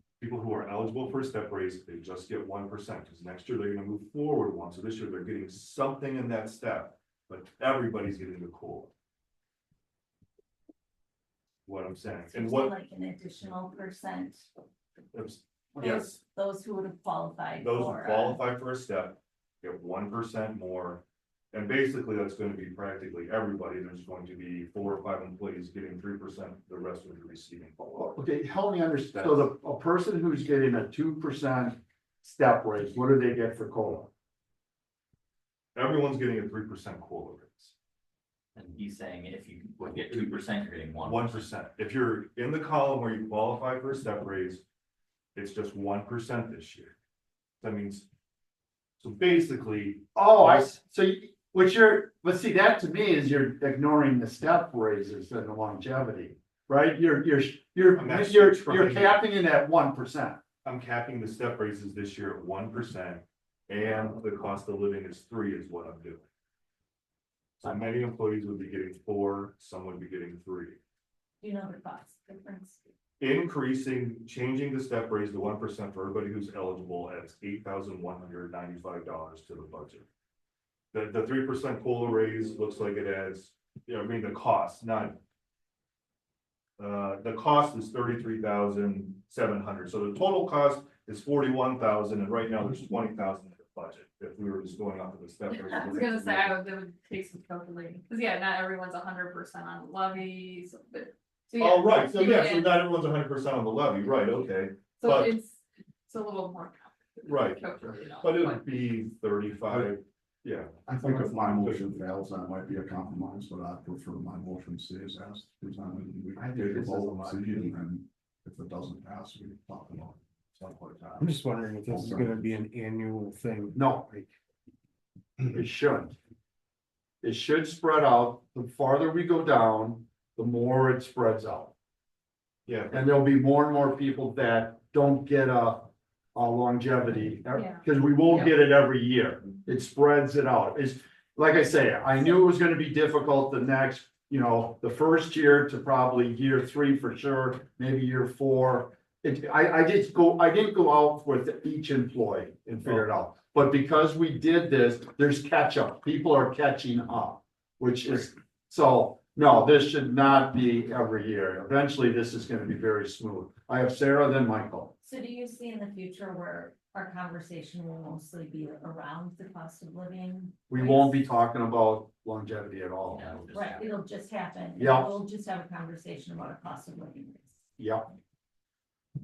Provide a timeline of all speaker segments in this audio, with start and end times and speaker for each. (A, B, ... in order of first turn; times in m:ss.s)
0:00.2-0:08.9 A
0:11.6-0:12.7 A
0:12.2-0:14.5 B
0:15.1-0:16.2 A
0:15.8-0:18.4 B
0:17.6-0:28.1 A
0:28.0-0:34.1 C
0:35.7-0:37.7 A
0:38.5-0:41.5 D
0:39.9-0:40.5 A
0:41.0-0:44.6 A
0:45.3-0:47.0 A
0:47.6-0:48.1 A
0:49.0-0:50.7 A
0:50.1-1:00.4 C
0:57.9-0:59.2 A
1:00.6-1:06.2 A
1:07.6-1:10.8 A
1:11.4-1:12.8 B
1:13.2-1:20.1 A
1:20.9-1:25.2 A
1:26.8-1:36.6 A
1:35.5-1:42.8 E
1:41.6-1:45.3 A
1:45.0-1:48.6 E
1:47.2-1:52.0 A
1:50.8-2:02.5 F
1:56.4-1:57.7 C
2:01.2-2:03.8 G
2:03.7-2:04.2 C
2:05.5-2:06.2 C
2:07.2-2:11.7 C
2:12.6-2:13.2 A
2:12.9-2:44.9 C
2:17.5-2:17.8 E
2:45.0-2:51.2 B
2:50.7-2:53.5 C
2:53.1-2:53.8 D
2:53.5-2:57.5 B
2:54.8-2:55.2 C
2:57.8-2:58.0 C